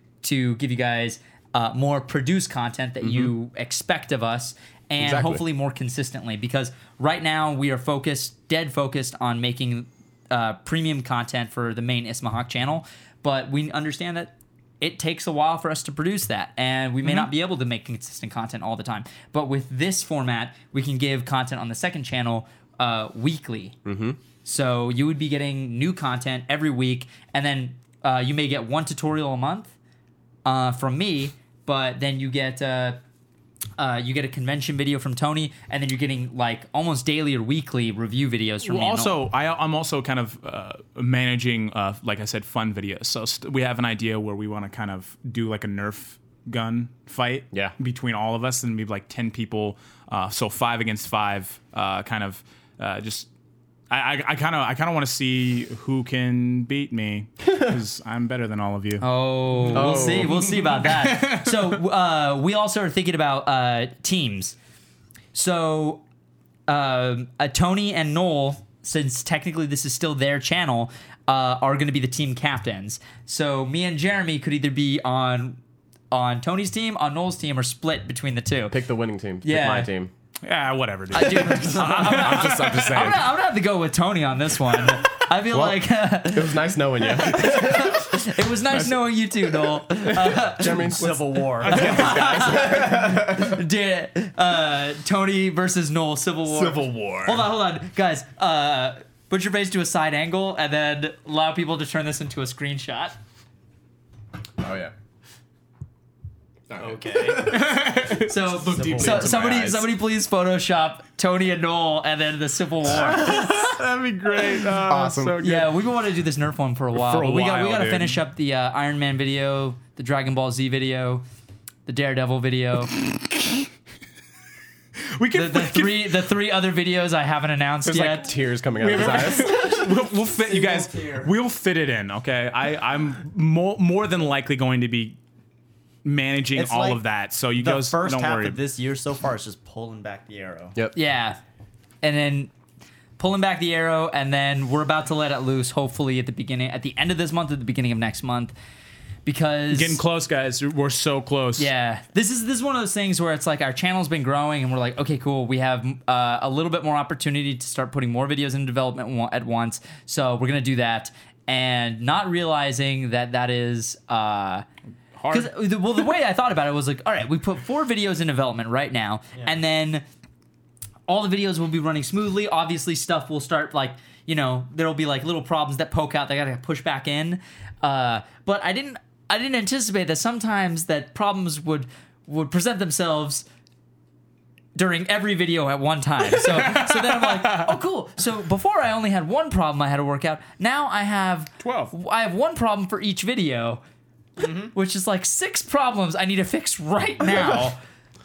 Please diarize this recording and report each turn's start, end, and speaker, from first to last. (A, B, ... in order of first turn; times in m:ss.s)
0:00.2-0:23.8 A
0:03.0-0:03.3 B
0:05.0-0:05.4 B
0:17.0-0:17.3 C
0:23.8-0:24.2 B
0:24.4-0:29.7 A
0:30.4-0:33.0 A
0:33.8-0:39.2 A
0:38.6-0:53.3 C
0:53.9-0:59.1 C
0:59.0-1:04.6 A
0:59.6-1:00.2 C
0:59.7-1:00.5 B
1:00.8-1:01.8 C
1:05.3-1:06.0 A
1:06.7-1:15.6 A
1:16.1-1:18.8 A
1:18.7-1:20.1 B
1:19.4-1:19.9 A
1:20.4-1:23.2 C
1:21.1-1:31.0 A
1:21.5-1:23.3 B
1:25.5-1:28.2 B
1:30.1-1:33.6 B
1:30.8-1:32.6 D
1:31.6-1:32.3 C
1:31.6-1:43.2 A
1:36.6-1:37.3 B
1:36.6-1:37.0 C
1:44.6-1:44.9 B
1:46.7-1:49.9 B
1:46.8-1:47.6 D
1:47.4-1:48.5 C
1:48.2-1:53.7 A
1:48.7-1:49.4 D
1:52.9-1:55.4 B
1:53.1-1:55.7 C
1:55.4-2:01.2 A
1:56.9-1:58.2 C
2:01.9-2:02.9 A
2:05.1-2:06.2 C
2:05.3-2:08.3 A
2:07.9-2:08.2 C
2:08.0-2:09.6 B
2:08.8-2:15.2 C
2:09.2-2:09.9 D
2:10.4-2:11.3 D
2:16.0-2:18.6 C
2:16.6-2:17.0 D
2:17.6-2:20.8 D
2:20.9-2:21.4 A
2:22.0-2:22.5 A
2:23.2-2:28.5 A
2:29.3-2:30.0 A
2:29.7-2:31.7 C
2:31.6-2:44.7 A
2:45.2-2:45.5 C
2:45.3-2:50.0 A
2:51.1-3:03.5 A
3:04.8-3:13.8 A
3:06.3-3:07.8 C
3:11.6-3:11.9 C
3:14.4-3:14.8 D
3:14.7-3:17.8 A